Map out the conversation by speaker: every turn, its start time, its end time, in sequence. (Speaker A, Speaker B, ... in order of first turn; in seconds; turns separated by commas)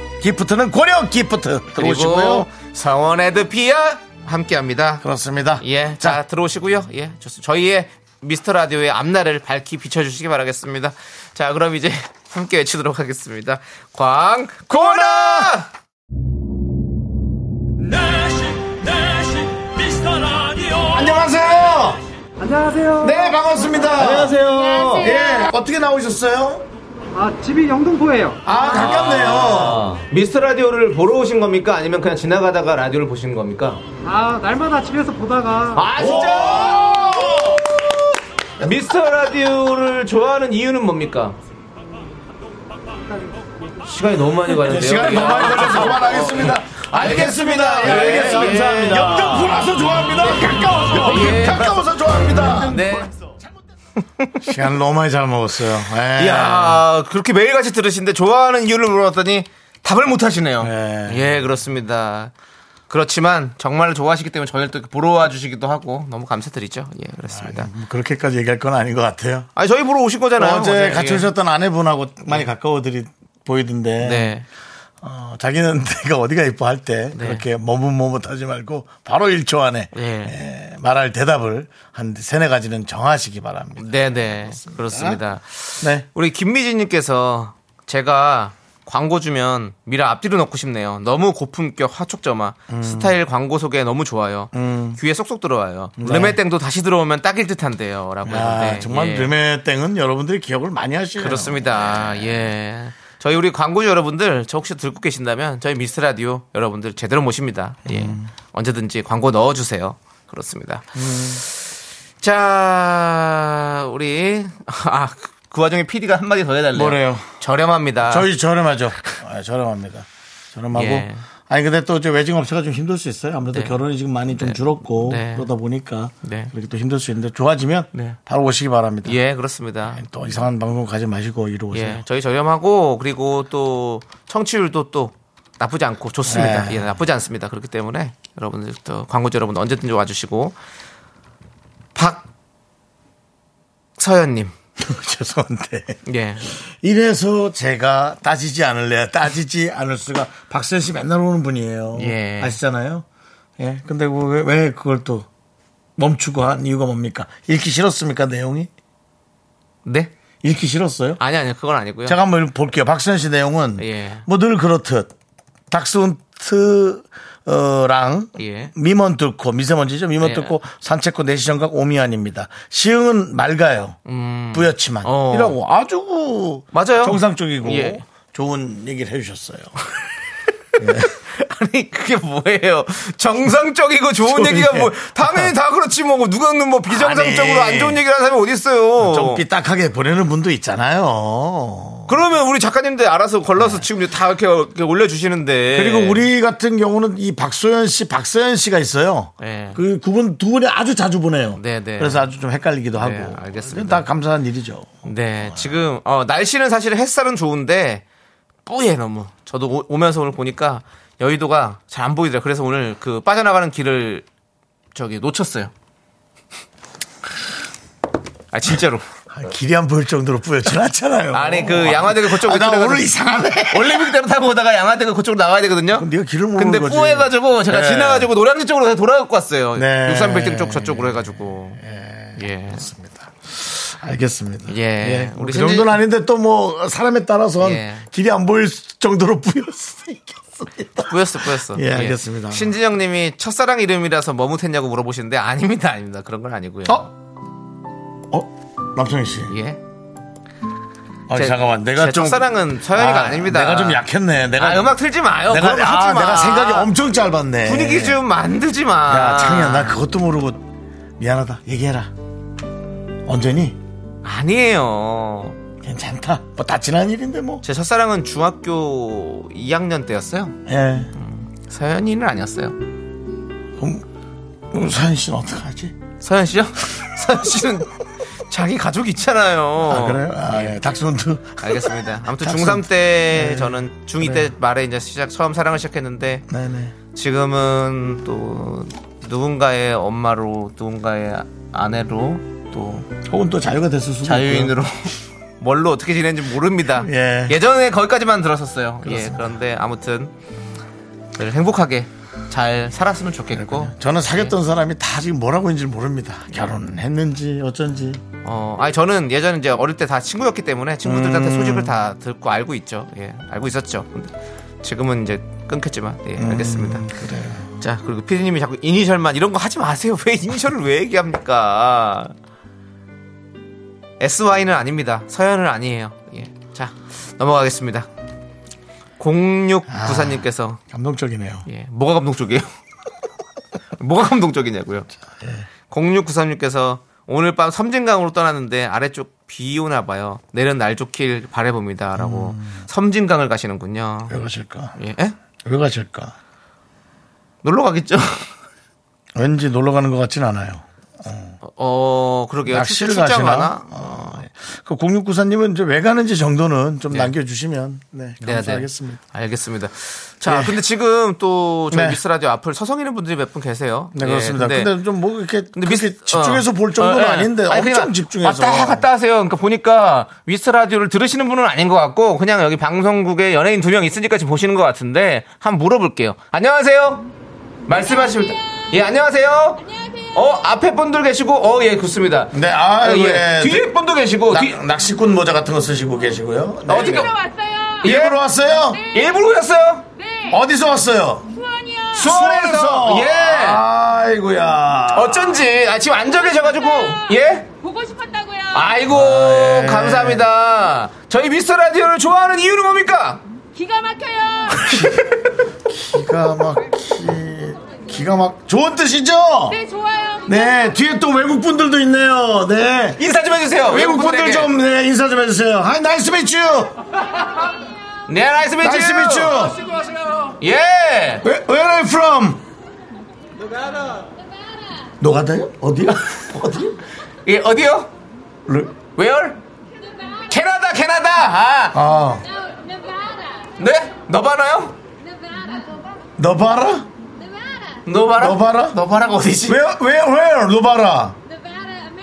Speaker A: 0.2-2.5, Speaker B: 1.8-5.0, Speaker A: 5.0-6.2, Speaker B: 5.6-15.7, Speaker A: 14.7-15.5, Speaker C: 17.8-21.2, Speaker A: 20.9-22.0, Speaker D: 22.4-24.4, Speaker B: 23.0-25.2, Speaker A: 23.1-26.7, Speaker D: 27.1-28.4, Speaker A: 28.4-29.8, Speaker B: 28.5-33.8, Speaker D: 34.0-35.8, Speaker B: 35.8-38.0, Speaker A: 36.0-37.7, Speaker B: 38.6-41.4, Speaker C: 42.8-43.3, Speaker B: 43.8-49.7, Speaker A: 44.6-53.4, Speaker B: 50.9-51.8, Speaker B: 52.5-53.1, Speaker A: 54.4-56.8, Speaker B: 56.2-62.3, Speaker A: 60.6-61.5, Speaker B: 62.9-67.7, Speaker A: 67.3-69.5, Speaker B: 69.6-71.3, Speaker A: 70.4-74.3, Speaker B: 74.0-74.5, Speaker A: 75.0-85.2, Speaker B: 77.2-77.4, Speaker B: 79.9-80.3, Speaker B: 83.8-99.3, Speaker A: 85.8-86.1, Speaker A: 92.7-93.2, Speaker A: 94.5-95.0, Speaker A: 96.0-96.4, Speaker A: 98.2-102.5, Speaker B: 101.2-110.9, Speaker A: 107.9-108.3, Speaker A: 111.0-111.4, Speaker B: 112.2-118.3, Speaker A: 116.7-117.3, Speaker A: 118.0-129.2, Speaker B: 120.7-121.2, Speaker B: 123.5-123.8, Speaker B: 124.3-125.5, Speaker B: 126.2-126.5, Speaker B: 129.1-130.0, Speaker A: 129.9-132.0, Speaker B: 131.7-140.6, Speaker A: 136.2-136.9, Speaker B: 141.9-142.3, Speaker B: 144.0-144.5, Speaker A: 144.8-146.0, Speaker B: 146.1-146.5, Speaker A: 146.5-153.1, Speaker B: 151.9-152.6, Speaker A: 153.6-155.3, Speaker A: 156.0-158.7, Speaker B: 159.8-160.1, Speaker A: 160.4-161.2, Speaker B: 161.2-162.2, Speaker A: 162.1-165.1, Speaker B: 163.8-164.3, Speaker A: 165.7-174.0, Speaker B: 168.4-168.7, Speaker B: 170.2-170.6, Speaker B: 174.1-175.6, Speaker A: 174.5-179.7, Speaker B: 176.7-178.0, Speaker A: 180.8-181.1, Speaker B: 181.0-189.4, Speaker A: 184.2-185.5, Speaker A: 186.9-188.0, Speaker A: 189.0-192.2, Speaker B: 192.1-196.3, Speaker A: 193.6-193.9, Speaker A: 195.7-205.7, Speaker B: 199.4-199.8, Speaker B: 201.6-202.3, Speaker B: 203.0-204.1, Speaker B: 205.1-208.0, Speaker B: 208.7-214.2, Speaker B: 214.9-215.7, Speaker B: 218.5-219.1, Speaker A: 219.3-224.2, Speaker B: 221.3-223.1, Speaker B: 223.7-231.8, Speaker A: 225.9-228.3, Speaker A: 229.8-242.7, Speaker B: 232.4-232.9, Speaker B: 234.7-236.0, Speaker B: 237.6-238.1, Speaker B: 241.1-247.1, Speaker A: 248.3-249.5, Speaker B: 249.5-249.8, Speaker A: 251.3-258.2, Speaker B: 251.3-254.0, Speaker B: 254.6-256.9, Speaker B: 257.6-260.0, Speaker A: 259.1-260.6, Speaker A: 261.2-262.1, Speaker A: 263.3-263.8, Speaker B: 264.2-265.6, Speaker A: 265.8-267.6, Speaker B: 267.6-270.6, Speaker A: 270.7-271.1, Speaker B: 271.1-272.8, Speaker A: 273.8-274.1, Speaker A: 274.7-276.0, Speaker B: 276.2-277.9, Speaker B: 278.5-280.8, Speaker A: 279.9-284.5, Speaker B: 281.6-286.4, Speaker A: 286.5-286.9, Speaker B: 287.1-292.4, Speaker A: 292.7-294.7, Speaker B: 294.2-300.3, Speaker A: 296.9-297.6, Speaker A: 299.0-299.6, Speaker B: 301.4-304.5, Speaker A: 303.5-308.2, Speaker B: 308.4-314.3, Speaker A: 311.0-312.0, Speaker B: 314.8-317.1, Speaker A: 316.4-317.7, Speaker B: 317.8-322.3, Speaker B: 324.2-328.1, Speaker B: 329.2-330.8, Speaker A: 329.9-331.6, Speaker B: 331.7-332.7, Speaker B: 334.0-335.1, Speaker A: 335.4-335.7, Speaker B: 335.9-344.4, Speaker A: 342.2-342.9, Speaker A: 344.3-344.9, Speaker B: 345.0-345.4, Speaker A: 345.6-346.4, Speaker B: 347.6-348.5, Speaker A: 349.4-351.6, Speaker B: 351.6-354.4, Speaker A: 352.7-359.2, Speaker B: 358.4-364.9, Speaker A: 360.4-360.8, Speaker A: 361.9-362.2, Speaker A: 364.1-369.1, Speaker B: 365.8-377.2, Speaker B: 377.9-379.8, Speaker E: 379.8-380.4, Speaker B: 380.3-384.8, Speaker A: 382.5-383.9, Speaker A: 384.5-387.3, Speaker B: 386.9-387.3, Speaker E: 386.9-388.1, Speaker B: 388.0-388.4, Speaker A: 388.0-389.0, Speaker E: 388.9-389.4, Speaker B: 389.1-390.0, Speaker E: 390.2-390.6, Speaker A: 390.5-391.5, Speaker E: 391.5-392.3, Speaker A: 392.1-395.6, Speaker B: 392.2-393.8, Speaker B: 395.1-397.7, Speaker E: 396.4-398.9, Speaker B: 398.7-403.4, Speaker A: 399.1-400.5, Speaker E: 403.8-405.1, Speaker A: 404.9-405.2, Speaker A: 405.9-409.8, Speaker E: 409.7-410.9, Speaker A: 410.5-413.2, Speaker B: 413.2-414.7, Speaker A: 413.9-416.9, Speaker B: 418.3-419.7, Speaker A: 418.8-419.8, Speaker B: 420.6-421.5, Speaker A: 421.4-422.6, Speaker A: 425.2-427.0, Speaker B: 427.4-428.1, Speaker A: 428.7-428.9, Speaker B: 429.1-429.6, Speaker B: 430.5-432.0, Speaker A: 431.9-432.4, Speaker B: 433.8-434.9, Speaker A: 436.4-437.1, Speaker B: 438.1-439.8, Speaker A: 438.4-439.0, Speaker A: 439.7-441.4